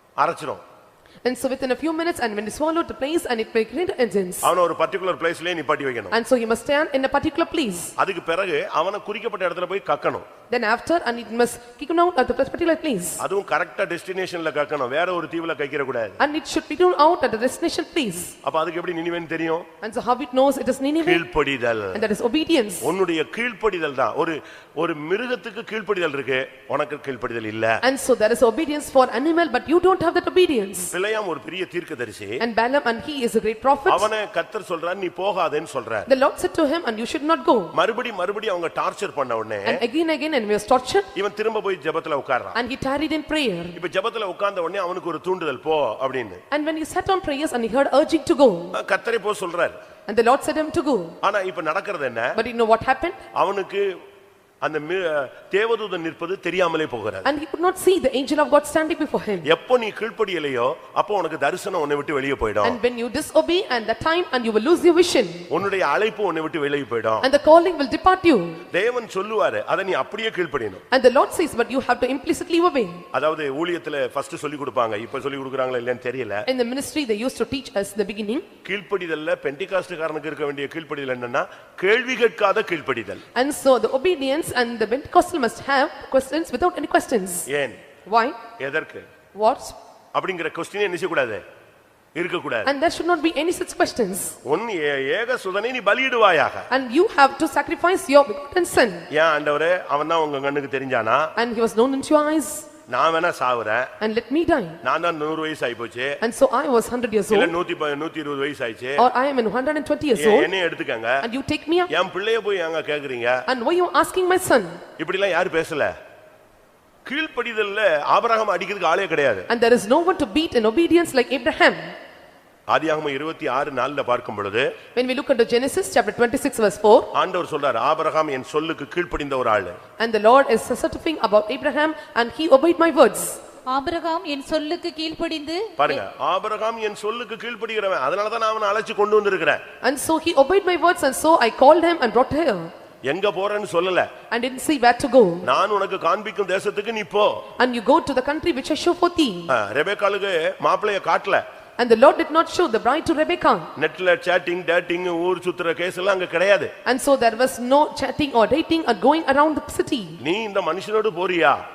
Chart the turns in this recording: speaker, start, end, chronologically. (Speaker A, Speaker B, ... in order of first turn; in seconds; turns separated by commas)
Speaker A: 0.2-0.6, Speaker B: 1.2-4.5, Speaker A: 4.4-6.2, Speaker B: 6.1-7.9, Speaker A: 8.0-10.2, Speaker B: 10.5-13.2, Speaker A: 13.2-16.2, Speaker B: 16.2-18.3, Speaker A: 18.4-19.7, Speaker B: 19.8-21.2, Speaker A: 21.0-22.0, Speaker B: 21.9-22.9, Speaker A: 22.8-27.8, Speaker B: 27.8-30.9, Speaker A: 30.9-32.4, Speaker B: 32.4-34.1, Speaker A: 33.9-36.1, Speaker B: 36.1-37.7, Speaker A: 37.7-39.8, Speaker B: 39.6-41.1, Speaker A: 41.1-42.6, Speaker B: 42.5-43.8, Speaker A: 43.8-46.4, Speaker B: 46.5-48.7, Speaker A: 48.7-49.8, Speaker B: 50.1-51.1, Speaker A: 51.2-52.4, Speaker B: 52.4-53.2, Speaker A: 53.3-53.9, Speaker A: 54.6-57.3, Speaker B: 57.2-59.5, Speaker A: 59.4-62.8, Speaker B: 62.6-65.5, Speaker A: 65.5-67.3, Speaker B: 67.2-68.6, Speaker A: 68.7-70.8, Speaker B: 70.9-73.0, Speaker A: 73.1-76.4, Speaker B: 76.5-78.5, Speaker A: 78.6-83.2, Speaker B: 83.3-87.5, Speaker A: 87.5-87.8, Speaker B: 88.0-88.4, Speaker A: 88.6-89.0, Speaker B: 89.3-89.8, Speaker A: 90.1-91.4, Speaker A: 92.1-92.7, Speaker B: 92.6-94.3, Speaker A: 94.4-96.7, Speaker B: 96.7-99.0, Speaker A: 99.1-101.3, Speaker B: 101.4-102.7, Speaker A: 102.9-103.9, Speaker B: 104.0-104.8, Speaker A: 104.8-106.2, Speaker B: 106.2-107.5, Speaker A: 107.3-109.0, Speaker B: 109.0-110.5, Speaker A: 110.2-111.2, Speaker B: 111.2-111.9, Speaker A: 111.9-113.4, Speaker B: 113.5-114.8, Speaker A: 115.0-115.9, Speaker A: 117.0-119.5, Speaker B: 119.5-121.9, Speaker A: 122.7-124.7, Speaker B: 124.9-127.1, Speaker A: 127.1-129.8, Speaker B: 130.0-133.4, Speaker C: 133.7-135.8, Speaker A: 135.8-139.6, Speaker B: 139.8-142.7, Speaker A: 143.1-144.1, Speaker B: 144.3-145.5, Speaker A: 145.4-147.4, Speaker B: 147.6-149.5, Speaker A: 149.5-151.4, Speaker B: 151.8-153.7, Speaker A: 153.8-156.7, Speaker B: 156.8-160.2, Speaker A: 160.2-161.6